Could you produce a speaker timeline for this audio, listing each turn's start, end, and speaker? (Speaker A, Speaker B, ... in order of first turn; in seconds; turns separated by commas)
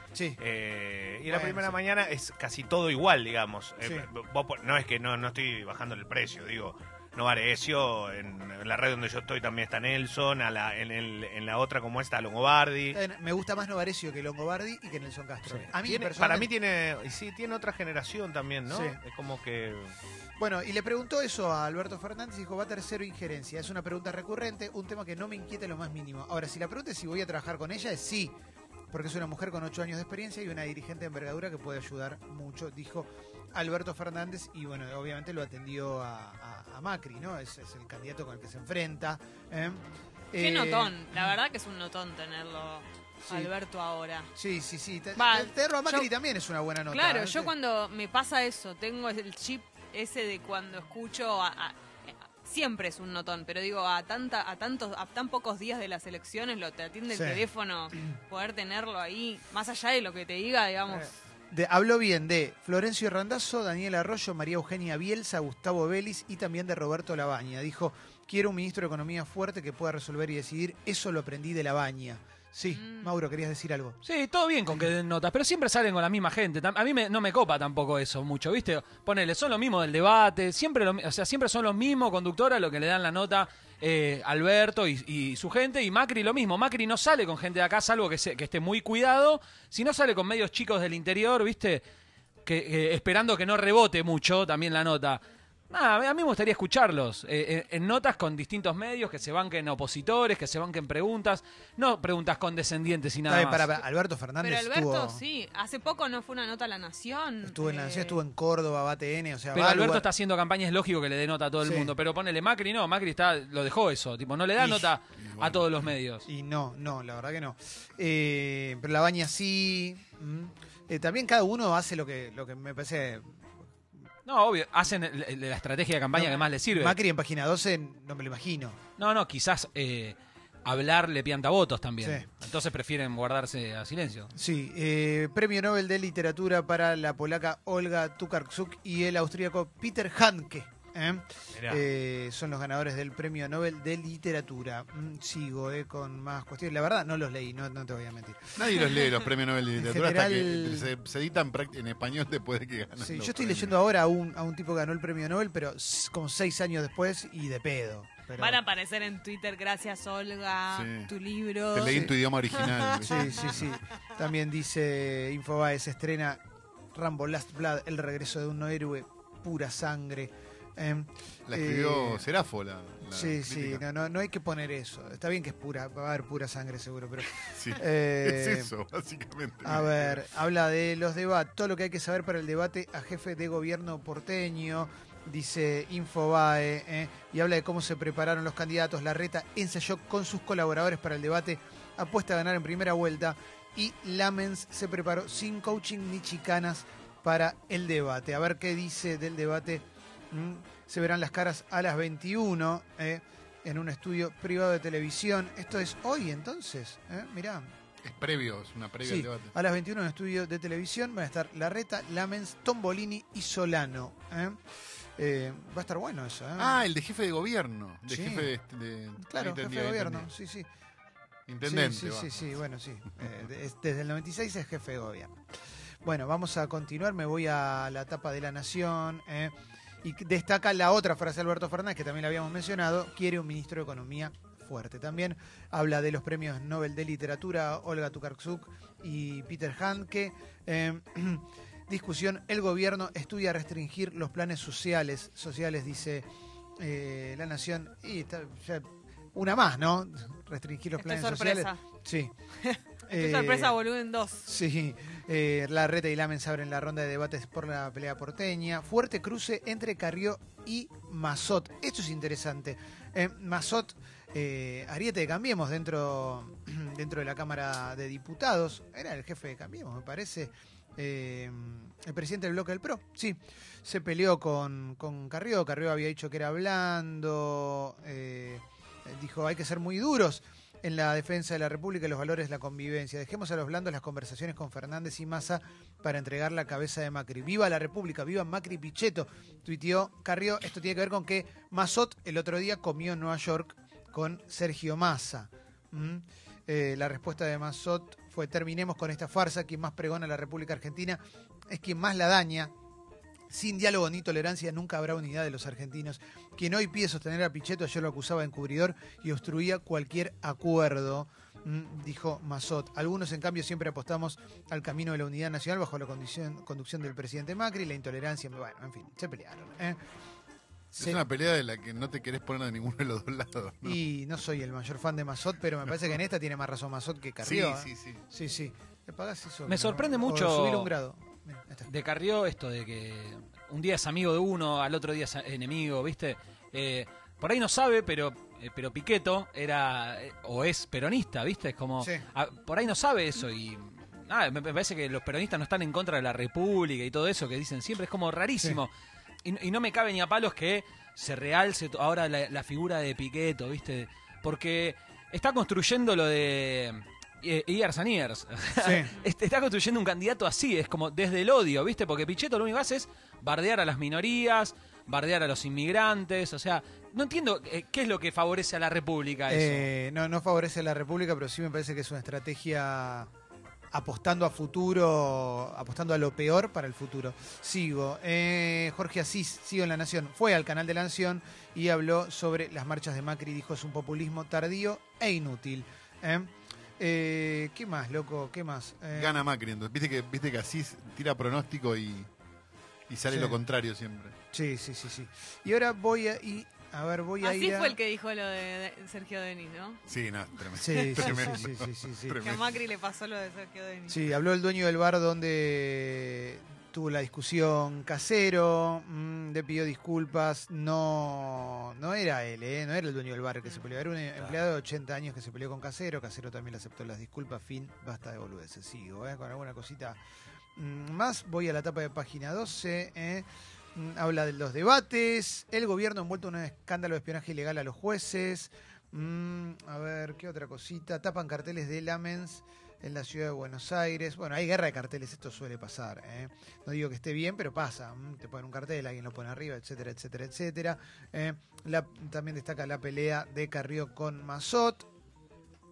Speaker A: 0.1-0.4, Speaker B: 0.4-13.0, Speaker A: 1.3-1.8, Speaker A: 12.9-16.5, Speaker B: 15.5-19.9, Speaker A: 18.7-19.0, Speaker A: 20.4-28.4, Speaker A: 28.9-41.4, Speaker C: 40.4-44.3, Speaker A: 43.2-43.5, Speaker A: 44.4-47.5, Speaker C: 45.1-46.1, Speaker C: 46.9-61.1, Speaker A: 57.1-57.4, Speaker A: 60.9-74.0, Speaker C: 72.7-73.1, Speaker D: 74.0-91.8, Speaker D: 92.5-103.8, Speaker A: 103.3-105.2, Speaker C: 104.4-108.2, Speaker A: 107.4-110.1, Speaker D: 109.5-116.3, Speaker A: 111.6-111.9, Speaker A: 114.6-114.9, Speaker E: 115.2-115.9, Speaker A: 116.3-123.4, Speaker D: 124.2-127.0, Speaker A: 126.1-128.8, Speaker D: 129.0-134.3, Speaker A: 132.0-132.3, Speaker A: 134.3-148.9, Speaker B: 141.5-141.8, Speaker E: 148.6-153.8, Speaker A: 149.8-150.9, Speaker A: 153.0-158.6, Speaker C: 158.4-163.7, Speaker E: 160.7-161.1, Speaker E: 161.7-163.6, Speaker A: 161.8-162.1, Speaker A: 163.0-166.4, Speaker A: 166.9-172.3, Speaker E: 171.5-173.8, Speaker A: 173.0-178.7, Speaker E: 177.5-180.2, Speaker A: 179.6-207.7, Speaker E: 208.0-209.5, Speaker A: 209.0-214.6, Speaker A: 215.2-216.8, Speaker E: 216.6-220.3, Speaker A: 218.1-218.5, Speaker A: 219.2-220.7, Speaker E: 221.5-222.5, Speaker A: 221.6-225.4, Speaker A: 226.0-252.3, Speaker C: 251.0-251.8, Speaker C: 252.6-254.5, Speaker A: 253.1-253.8, Speaker A: 254.4-302.7, Speaker A: 303.5-320.0, Speaker A: 320.9-321.2, Speaker E: 321.0-324.0, Speaker A: 323.8-331.9, Speaker E: 327.4-328.2, Speaker D: 329.7-330.9, Speaker D: 331.9-348.9, Speaker D: 349.4-369.9, Speaker A: 358.8-359.1, Speaker A: 369.5-373.3, Speaker A: 373.9-389.5, Speaker E: 389.1-392.3, Speaker E: 393.1-394.3, Speaker A: 393.3-393.6, Speaker A: 394.5-398.0, Speaker C: 397.4-400.0, Speaker E: 400.1-402.6, Speaker A: 400.8-402.4, Speaker C: 400.9-401.6, Speaker C: 402.4-404.3, Speaker A: 404.1-420.2, Speaker A: 420.8-445.1